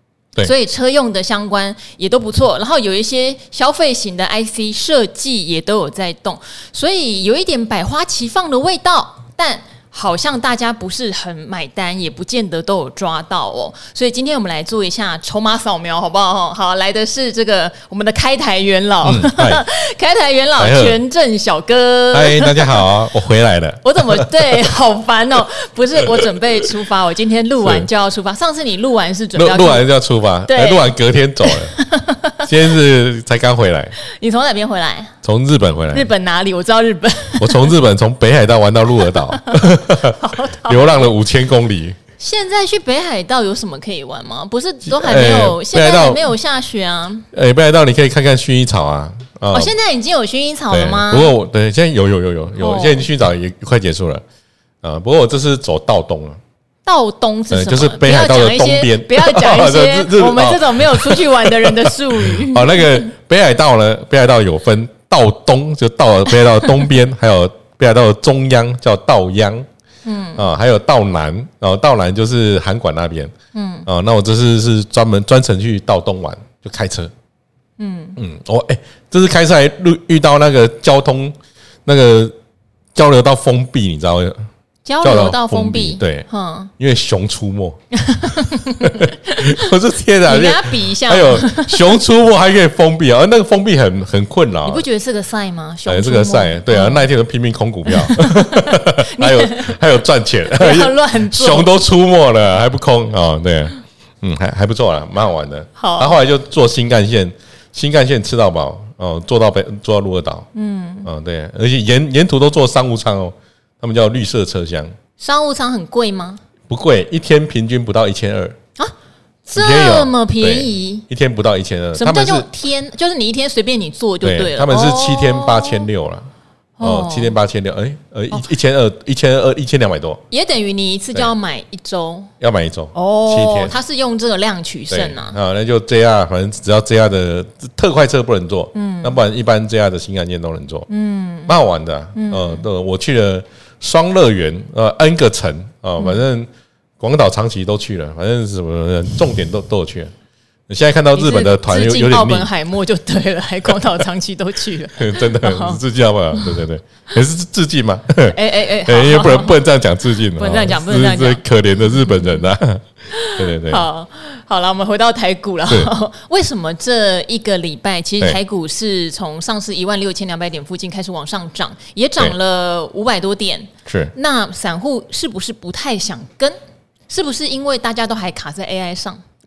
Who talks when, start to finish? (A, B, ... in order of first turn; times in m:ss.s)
0:00.4-0:22.9 A
0:19.0-0:19.6 B
0:20.6-0:21.0 B
0:22.1-0:24.3 B
0:23.8-0:29.9 A
0:27.6-0:27.9 B
0:29.4-0:31.8 B
0:30.5-0:30.9 A
0:31.5-0:32.5 A
0:32.4-0:33.9 B
0:34.0-0:35.1 A
0:35.2-0:36.1 B
0:35.9-0:37.7 A
0:37.4-0:42.0 B
0:39.0-0:41.1 A
0:42.2-0:47.3 A
0:44.8-0:46.2 B
0:47.3-0:49.7 B
0:49.5-0:51.3 A
0:50.7-0:54.2 B
0:52.6-0:53.0 A
0:54.8-0:56.4 B
0:56.8-1:02.9 A
0:57.5-1:09.6 B
1:10.0-1:10.4 A
1:10.4-1:13.3 B
1:13.5-1:13.9 A
1:13.8-1:17.1 B
1:17.8-1:18.2 A
1:18.2-1:21.3 B
1:21.8-1:22.3 B
1:22.9-1:24.5 B
1:24.8-1:26.7 A
1:25.0-1:26.2 B
1:26.8-1:27.8 B
1:28.0-1:29.7 A
1:28.8-1:34.8 B
1:30.2-1:31.8 A
1:34.6-1:37.1 A
1:35.8-1:50.5 B
1:37.9-1:39.8 A
1:40.5-1:41.7 A
1:45.8-1:46.2 A
1:50.5-1:51.1 A
1:51.0-1:54.9 B
1:55.2-1:56.4 A
1:56.7-1:58.6 B
1:59.5-2:02.5 B
1:59.5-2:01.0 A
2:01.9-2:05.9 A
2:04.2-2:06.3 B
2:06.8-2:07.3 A
2:06.8-2:10.2 B
2:10.3-2:12.3 A
2:12.4-2:13.7 B
2:12.9-2:15.4 A
2:14.9-2:20.9 B
2:18.7-2:19.2 A
2:20.9-2:21.6 A
2:21.5-2:26.5 B
2:22.1-2:22.6 A
2:27.0-2:30.1 B
2:30.7-2:32.5 B
2:31.1-2:35.8 A
2:35.0-2:43.8 B
2:36.3-2:36.6 A
2:38.3-2:39.6 A
2:40.3-2:41.4 A
2:43.1-2:56.6 A
2:53.9-2:54.1 B
2:57.1-2:59.2 A